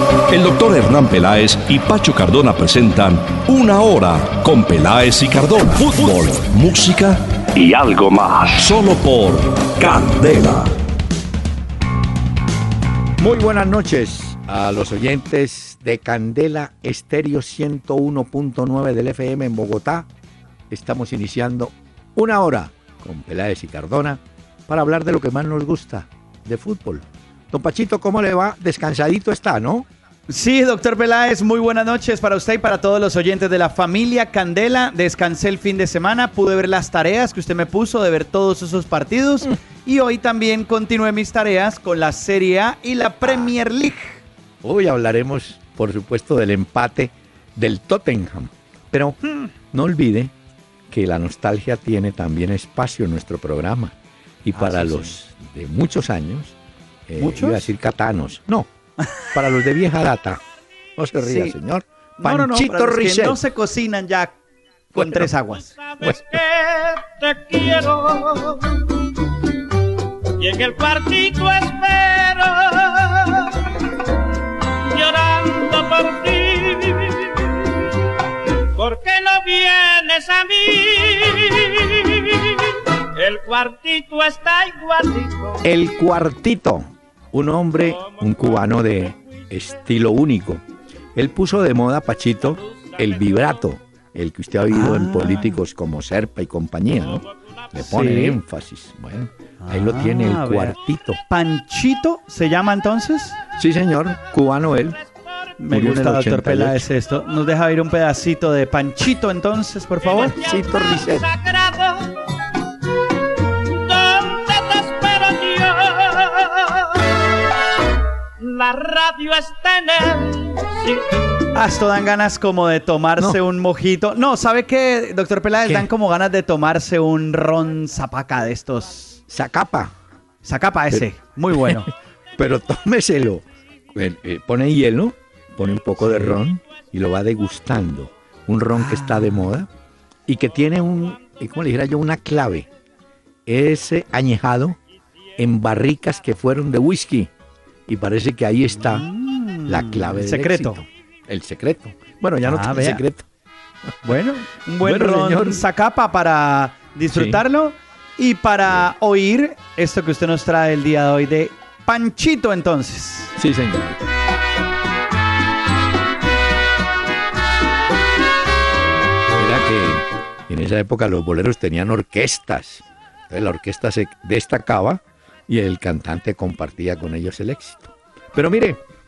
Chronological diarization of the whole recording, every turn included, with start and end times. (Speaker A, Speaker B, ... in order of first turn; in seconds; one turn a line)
Speaker A: 0.3-10.7
Speaker B: 13.2-20.1
Speaker B: 20.7-29.9
Speaker C: 30.3-44.2
Speaker B: 44.6-49.2
Speaker C: 49.2-49.5
Speaker B: 49.7-50.3
Speaker B: 50.9-56.6
Speaker C: 54.5-55.1
Speaker B: 57.1-58.7
Speaker C: 57.2-57.7
Speaker B: 59.3-60.4
Speaker B: 61.0-63.4
Speaker C: 61.2-61.6
Speaker C: 62.2-64.4
Speaker B: 64.9-65.3
Speaker C: 64.9-65.7
Speaker D: 65.7-68.9
Speaker B: 66.0-66.4
Speaker D: 70.4-73.7
Speaker D: 74.8-77.9
Speaker D: 78.7-85.6
Speaker B: 85.6-90.6
Speaker D: 88.0-88.3
Speaker B: 91.2-101.2
Speaker C: 94.7-95.6
Speaker C: 97.8-98.4
Speaker C: 99.6-100.8
Speaker C: 101.3-103.4
Speaker B: 103.6-105.0
Speaker D: 105.0-105.5
Speaker C: 105.6-110.3
Speaker B: 105.7-106.9
Speaker D: 110.0-112.2
Speaker B: 110.2-111.3
Speaker D: 113.7-117.2
Speaker D: 118.4-121.1
Speaker C: 121.5-129.2
Speaker B: 129.3-129.9
Speaker C: 130.4-131.9
Speaker B: 130.9-131.8
Speaker B: 132.4-139.7
Speaker C: 136.0-136.4
Speaker C: 138.8-139.5
Speaker B: 140.3-142.7
Speaker B: 143.5-144.8
Speaker B: 145.4-147.3
Speaker B: 147.9-149.1
Speaker C: 148.8-150.8
Speaker B: 149.7-153.3
Speaker C: 152.4-153.0
Speaker C: 154.0-163.3
Speaker B: 154.8-155.6
Speaker B: 157.1-157.4
Speaker B: 163.4-164.0
Speaker B: 169.4-178.8